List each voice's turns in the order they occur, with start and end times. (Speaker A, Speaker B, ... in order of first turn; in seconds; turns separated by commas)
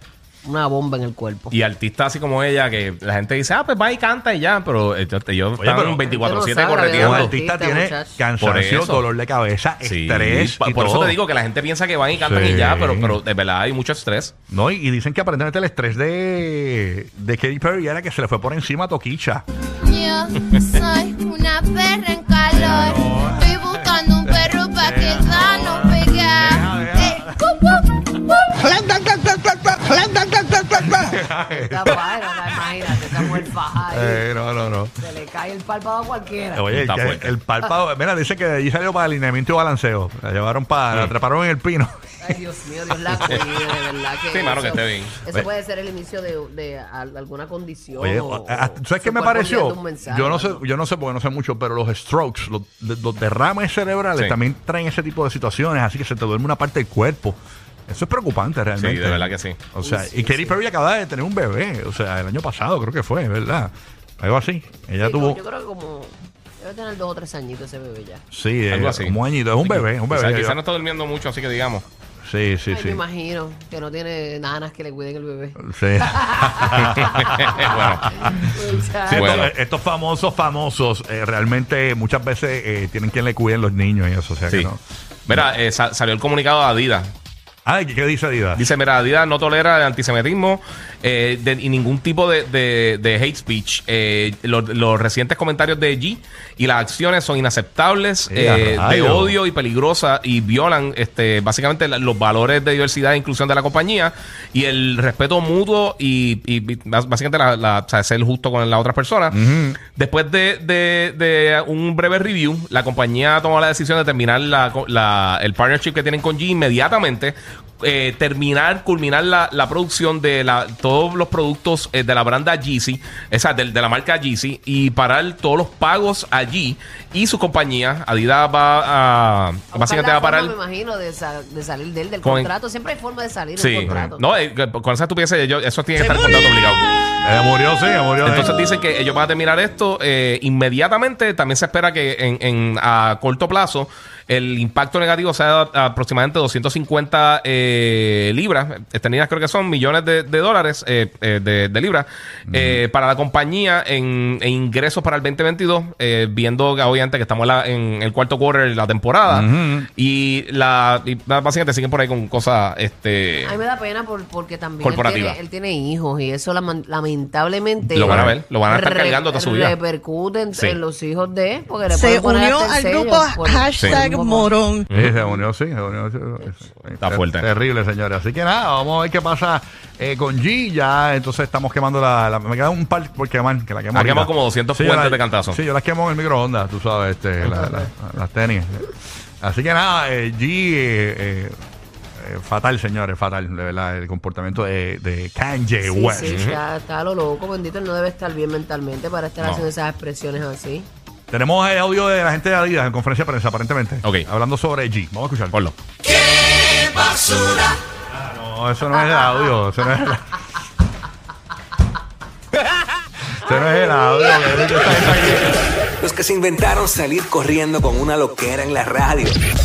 Speaker A: 0.4-1.5, Speaker B: 1.5-7.3, Speaker C: 5.6-6.1, Speaker A: 6.1-8.2, Speaker C: 6.9-11.2, Speaker B: 8.4-9.0, Speaker B: 9.8-14.3, Speaker C: 12.1-13.2, Speaker C: 14.5-19.4, Speaker D: 19.8-27.8, Speaker C: 22.5-27.4, Speaker C: 28.6-32.0, Speaker A: 31.5-34.2, Speaker C: 33.1-34.9, Speaker A: 35.0-36.6, Speaker C: 36.5-42.4, Speaker B: 36.7-37.3, Speaker A: 42.2-50.6, Speaker B: 44.3-45.2, Speaker C: 48.0-65.4, Speaker B: 58.8-59.6, Speaker A: 59.8-60.6, Speaker A: 65.0-68.2, Speaker C: 68.3-70.6, Speaker B: 68.7-71.8, Speaker C: 72.2-73.0, Speaker A: 72.7-79.4, Speaker C: 75.6-85.5, Speaker B: 76.8-78.1, Speaker B: 79.1-79.5, Speaker B: 85.3-87.1, Speaker C: 87.7-88.7, Speaker B: 88.5-109.4, Speaker C: 98.3-99.3, Speaker C: 109.3-109.8, Speaker B: 109.9-130.5, Speaker A: 129.7-134.2, Speaker B: 132.2-132.5, Speaker B: 133.6-136.9, Speaker C: 137.2-138.5, Speaker B: 138.2-163.6, Speaker C: 152.5-152.8, Speaker C: 159.3-159.9, Speaker A: 163.4-174.5, Speaker B: 164.8-165.4, Speaker B: 167.9-169.8, Speaker C: 168.0-168.3, Speaker B: 170.5-170.8, Speaker E: 171.9-174.9, Speaker B: 173.8-174.1, Speaker B: 174.9-175.2, Speaker C: 174.9-191.5, Speaker B: 177.0-177.5, Speaker B: 183.9-185.6, Speaker C: 192.2-196.4, Speaker A: 195.8-200.9, Speaker B: 196.2-196.6, Speaker B: 199.4-199.7, Speaker C: 201.3-205.6, Speaker B: 205.5-205.8, Speaker F: 206.0-207.8, Speaker C: 208.1-210.4, Speaker C: 213.3-215.5, Speaker F: 216.0-219.4